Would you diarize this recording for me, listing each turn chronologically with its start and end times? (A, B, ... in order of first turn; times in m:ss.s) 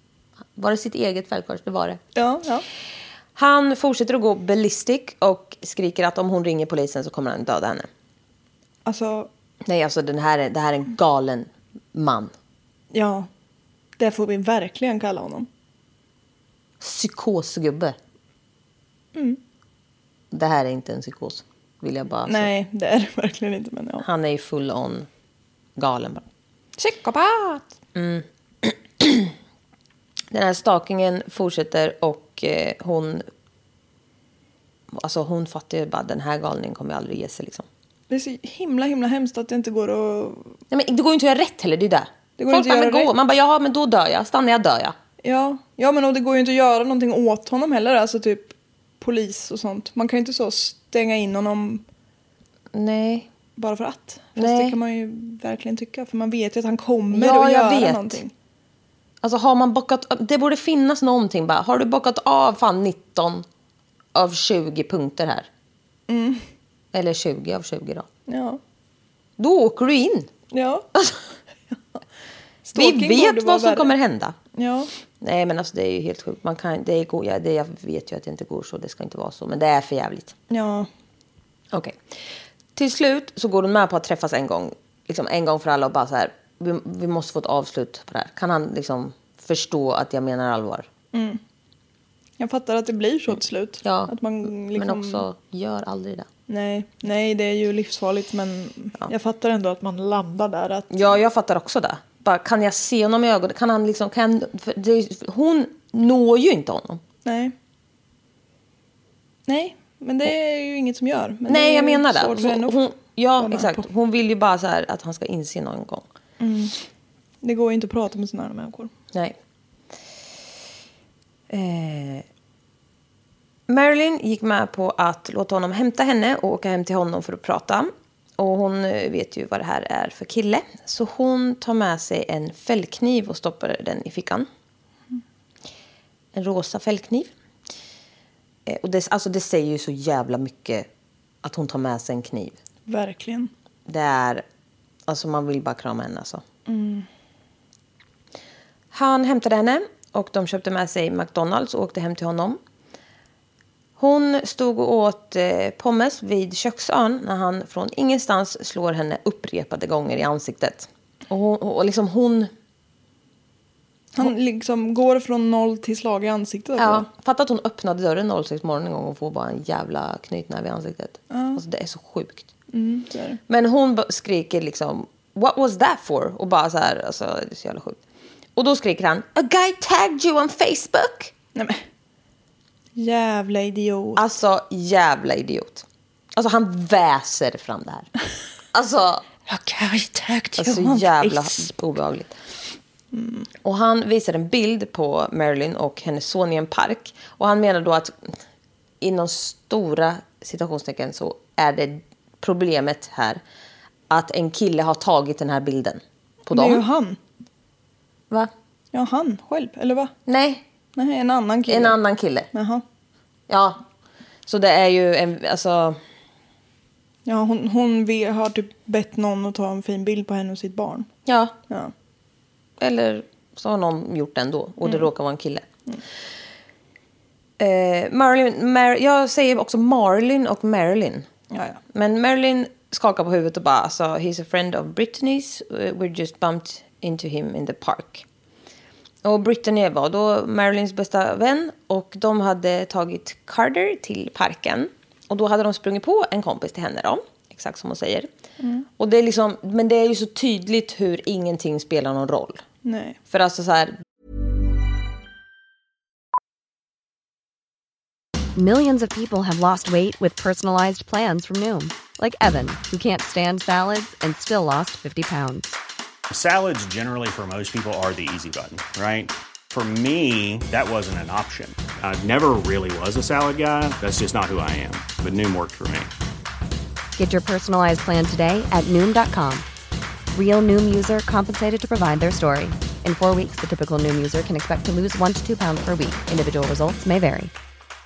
0:00.6-0:02.0 A
0:02.2-0:02.6 B
0:03.4-0:07.9 A
0:08.9-0:09.3 B
0:09.7-0:12.3 A
0:12.9-0:13.3 B
0:14.0-0:15.5 B
0:16.8-0:18.0 A
0:19.2-0:19.4 B
0:20.3-0:22.5 A
0:22.3-0:24.1 B
0:24.0-0:25.1 A
0:25.8-0:26.3 A
0:26.8-0:27.8 B
0:28.0-0:29.3 A
0:30.3-0:33.2 A
0:34.9-0:37.7 A
0:38.1-0:40.6 B
0:40.7-0:45.0 A
0:42.4-0:43.1 B
0:45.2-0:51.8 B
0:52.7-0:53.3 A
0:53.6-0:58.3 B
0:54.4-0:54.8 A
0:57.1-0:58.2 A
0:59.2-1:03.4 A
1:04.2-1:05.5 A
1:06.1-1:06.4 B
1:06.9-1:08.1 A
1:08.3-1:08.6 B
1:09.4-1:10.3 A
1:10.5-1:10.9 B
1:12.6-1:13.9 B
1:12.8-1:14.4 A
1:14.5-1:14.9 B
1:15.2-1:20.3 A
1:20.5-1:20.9 B
1:21.7-1:22.0 A
1:22.8-1:30.9 A
1:31.1-1:31.4 B
1:32.4-1:35.2 B
1:33.8-1:36.3 A
1:36.5-1:41.1 B
1:40.9-1:47.0 A
1:47.2-1:47.6 B
1:49.5-1:52.8 B
1:51.5-1:56.1 A
1:53.4-1:53.8 B
1:56.4-1:56.8 B
1:57.4-1:58.9 B
2:01.5-2:02.2 A
2:03.7-2:14.5 A
2:16.3-2:17.3 A
2:18.7-2:20.9 A
2:21.4-2:22.6 A
2:22.9-2:23.5 B
2:23.9-2:24.4 A
2:25.1-2:26.4 A
2:26.7-2:27.1 B
2:28.9-2:32.6 A
2:34.0-2:42.5 A
2:44.2-2:47.1 B
2:46.8-2:52.5 A
2:51.3-2:51.6 B
2:52.7-2:53.4 B
2:53.5-2:58.0 A
2:58.6-3:01.3 A
3:01.6-3:01.9 B
3:03.0-3:04.2 B
3:04.2-3:08.1 A
3:08.7-3:09.3 A
3:09.4-3:11.7 B
3:10.6-3:12.3 A
3:13.1-3:13.5 B
3:13.6-3:18.4 A
3:19.0-3:23.4 A
3:24.1-3:26.8 A
3:26.5-3:27.2 B
3:28.9-3:30.1 B
3:30.3-3:30.6 A
3:31.0-3:32.0 B
3:31.7-3:32.5 A
3:32.5-3:32.8 B
3:33.5-3:33.8 A
3:34.5-3:36.0 A
3:37.3-3:41.1 B
3:41.3-3:41.6 A
3:42.8-3:45.6 A
3:47.6-3:51.3 A
3:51.5-3:51.8 B
3:51.9-3:58.2 A
3:59.2-4:08.3 A
4:08.6-4:08.9 B
4:09.0-4:12.6 A
4:12.8-4:13.2 B
4:13.3-4:14.0 A
4:18.6-4:25.8 C
4:26.3-4:36.1 D
4:37.2-4:39.7 C
4:40.3-4:47.5 C